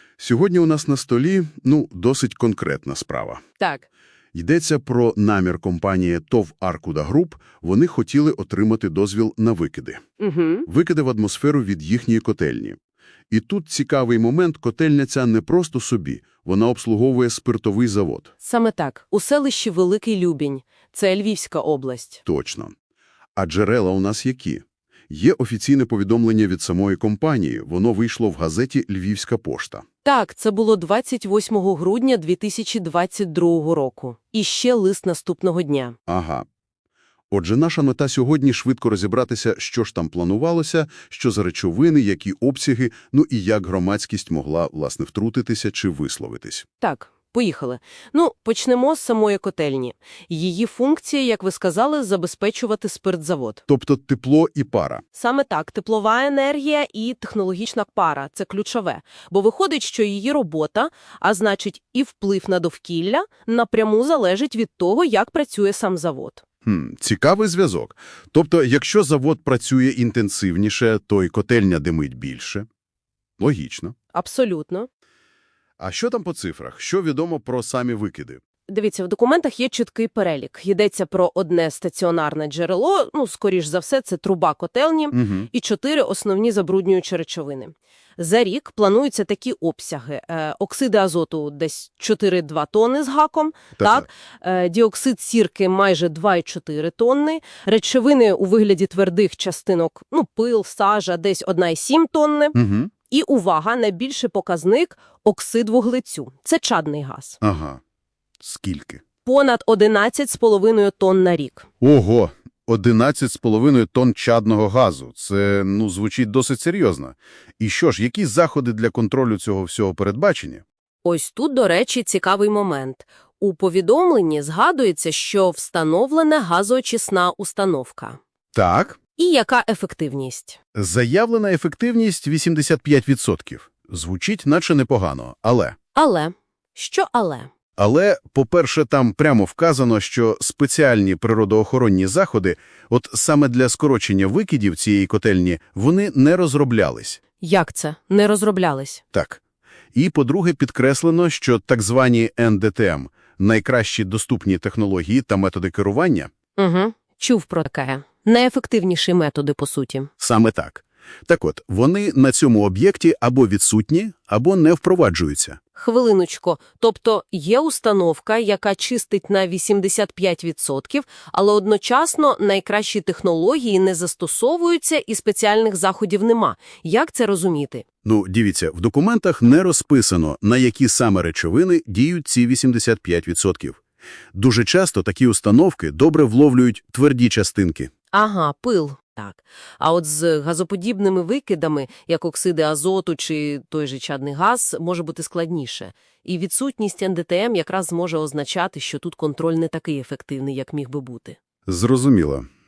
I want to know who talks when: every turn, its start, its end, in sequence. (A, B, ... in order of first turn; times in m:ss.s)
0:00.2-0:03.4 A
0:03.6-0:03.8 B
0:04.3-0:10.0 A
0:10.2-0:10.7 B
0:10.6-0:12.8 A
0:13.3-0:18.3 A
0:18.4-0:22.2 B
0:22.2-0:22.7 A
0:23.4-0:29.8 A
0:30.0-0:36.0 B
0:36.1-0:36.4 A
0:37.3-0:46.6 A
0:46.8-0:53.6 B
0:53.7-0:55.0 A
0:55.1-1:06.4 B
1:06.6-1:12.6 A
1:13.4-1:13.9 A
1:14.1-1:14.9 B
1:15.8-1:18.4 A
1:18.7-1:42.6 B
1:25.1-1:25.5 A
1:33.8-1:34.1 A
1:42.5-1:42.9 A
1:43.1-1:47.4 B
1:47.4-1:47.8 A
1:48.4-1:49.0 A
1:49.2-1:51.6 B
1:51.8-2:00.6 A
2:01.0-2:08.2 B
2:08.5-2:09.0 A
2:09.2-2:10.6 B
2:10.7-2:15.8 A
2:15.9-2:17.5 B
2:17.8-2:27.2 A
2:27.4-2:29.0 B
2:29.1-2:29.4 A
2:29.9-2:36.3 A
2:36.6-2:40.1 B
2:40.2-2:45.6 A
2:45.8-2:57.8 B
2:58.0-3:03.8 A
3:04.3-3:07.9 A
3:08.1-3:21.4 B
3:21.7-3:22.4 A